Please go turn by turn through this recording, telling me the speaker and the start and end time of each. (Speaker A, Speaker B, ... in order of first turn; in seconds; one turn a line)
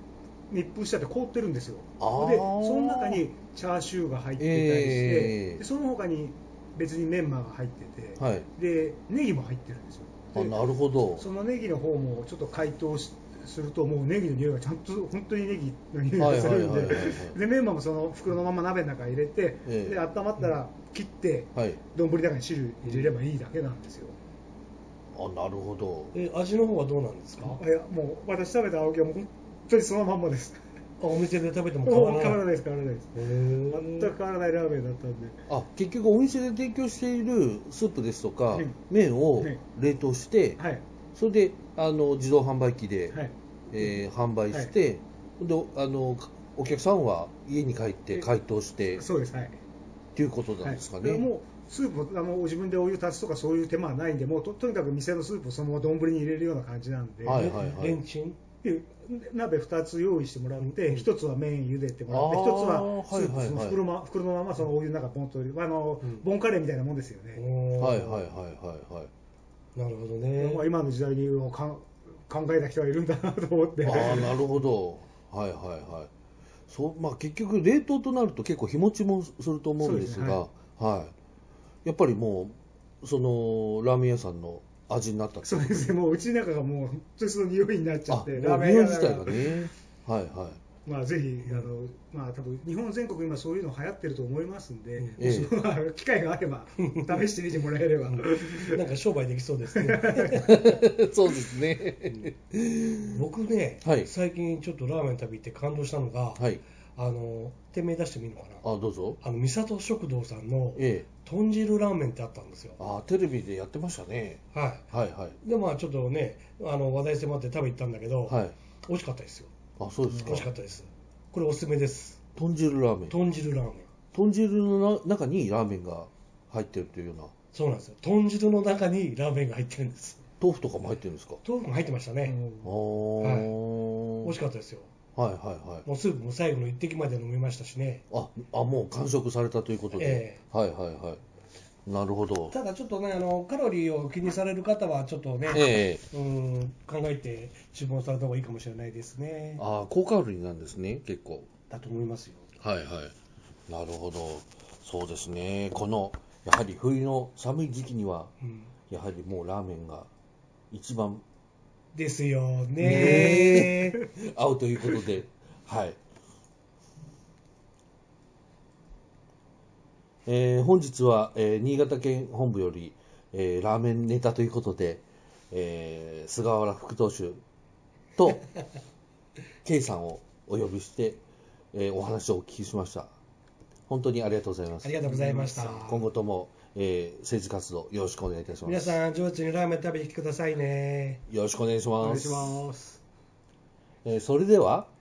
Speaker A: 0.5-10.6
Speaker B: 2.0-3.2
Speaker B: 4.4-5.6
Speaker B: 8.2-8.5
Speaker B: 10.3-11.2
Speaker A: 11.1-24.2
Speaker B: 16.2-17.4
Speaker B: 19.6-20.0
Speaker B: 25.1-26.1
Speaker C: 26.1-27.6
Speaker A: 27.4-30.6
Speaker C: 31.0-32.4
Speaker A: 31.8-35.4
Speaker C: 33.1-34.1
Speaker B: 35.5-40.6
Speaker A: 38.5-38.8
Speaker A: 39.4-39.6
Speaker A: 40.6-40.8
Speaker B: 41.1-43.2
Speaker A: 43.1-44.7
Speaker B: 43.7-49.0
Speaker A: 48.9-49.6
Speaker B: 50.1-51.2
Speaker A: 50.6-57.5
Speaker B: 57.2-58.0
Speaker C: 57.3-58.4
Speaker A: 58.6-67.4
Speaker C: 60.6-61.0
Speaker B: 62.1-63.8
Speaker C: 67.3-68.2
Speaker B: 67.8-69.1
Speaker C: 69.8-70.6
Speaker A: 70.4-74.4
Speaker B: 73.8-76.1
Speaker B: 76.7-81.1
Speaker A: 79.8-80.4
Speaker B: 81.8-85.9
Speaker A: 85.4-89.7
Speaker B: 88.1-90.6
Speaker A: 90.8-98.8
Speaker B: 95.2-95.5
Speaker C: 96.8-97.3
Speaker C: 98.1-100.8
Speaker A: 99.8-100.4
Speaker B: 100.3-103.2
Speaker C: 103.1-108.6
Speaker B: 103.8-104.1
Speaker B: 106.4-106.6
Speaker B: 108.6-109.2
Speaker C: 109.2-112.8
Speaker B: 110.8-111.1
Speaker B: 112.8-115.4
Speaker C: 114.5-114.8
Speaker C: 115.4-119.5
Speaker B: 118.3-118.5
Speaker B: 119.8-120.5
Speaker C: 120.2-122.2
Speaker B: 122.3-123.1
Speaker C: 123.1-123.9
Speaker B: 124.1-127.3
Speaker C: 127.5-130.2
Speaker B: 130.4-131.4
Speaker C: 131.4-132.3
Speaker A: 132.2-132.7
Speaker B: 132.6-134.3
Speaker C: 133.2-133.5
Speaker C: 134.2-134.9
Speaker B: 135.2-135.8
Speaker C: 135.8-138.0
Speaker B: 138.1-141.2
Speaker C: 139.9-140.4
Speaker B: 141.8-142.5
Speaker C: 142.5-149.6
Speaker B: 145.5-146.0
Speaker B: 149.6-151.5
Speaker C: 151.7-152.5
Speaker B: 152.6-153.1
Speaker B: 153.7-158.3
Speaker C: 158.4-158.7
Speaker B: 158.9-160.1
Speaker B: 160.7-161.2
Speaker C: 161.9-164.0
Speaker B: 162.8-166.0
Speaker B: 170.2-177.4
Speaker B: 178.2-178.4
Speaker B: 179.6-181.2
Speaker B: 181.7-183.1
Speaker B: 183.9-189.0
Speaker C: 184.8-186.0
Speaker A: 185.1-185.8
Speaker C: 188.6-191.2
Speaker B: 191.3-192.6
Speaker A: 192.0-193.0
Speaker B: 194.0-194.9